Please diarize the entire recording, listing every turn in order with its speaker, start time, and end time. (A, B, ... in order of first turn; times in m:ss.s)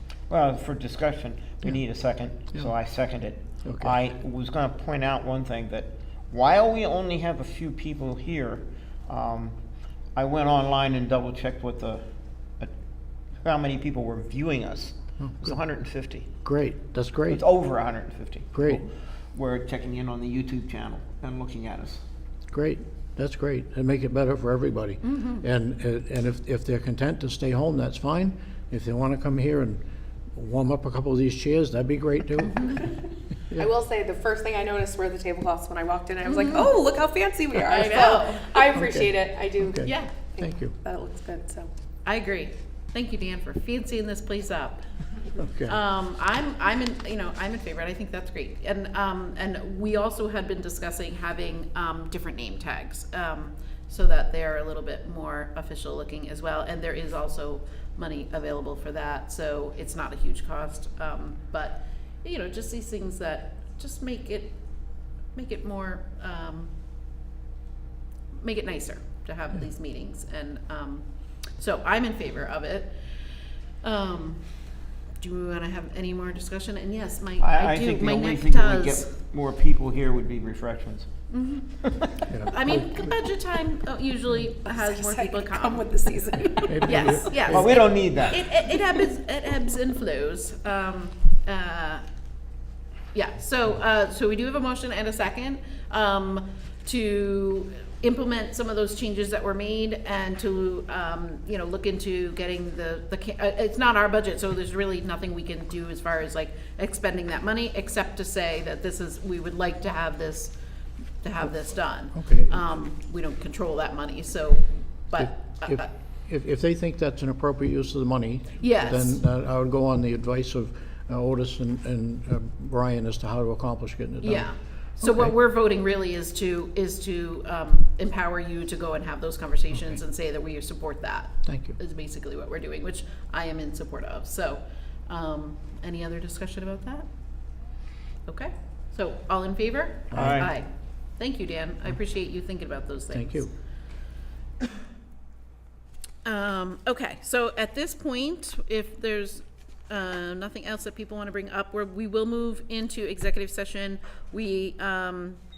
0:00.3-0:09.6 A
0:03.6-0:03.9 B
0:10.1-0:12.0 A
0:13.4-0:16.3 A
0:15.2-0:15.5 B
0:16.4-0:17.4 B
0:17.3-0:22.0 A
0:18.5-0:18.8 B
0:22.5-0:32.9 B
0:25.0-0:25.4 C
0:33.6-0:41.7 D
0:36.3-0:36.8 C
0:37.6-0:38.6 C
0:38.7-0:40.8 B
0:39.8-0:40.1 C
0:42.0-0:44.8 C
0:45.4-0:45.8 B
0:45.7-1:04.6 C
1:05.3-1:06.7 C
1:08.4-1:11.0 C
1:11.6-1:13.0 C
1:13.8-1:14.4 C
1:15.2-1:19.1 C
1:17.4-1:21.1 A
1:21.3-1:21.7 C
1:22.3-1:23.1 B
1:22.5-1:32.0 C
1:24.6-1:27.2 D
1:26.7-1:27.8 B
1:27.5-1:28.4 A
1:33.1-1:50.6 C
1:51.2-1:55.9 C
1:52.1-1:52.6 B
1:55.2-2:05.3 B
1:58.6-1:59.2 C
2:04.2-2:17.1 C
2:11.4-2:11.8 B
2:18.3-2:20.7 C
2:20.1-2:20.5 B
2:20.1-2:20.5 A
2:21.2-2:23.5 C
2:23.1-2:23.5 B
2:26.2-2:35.4 C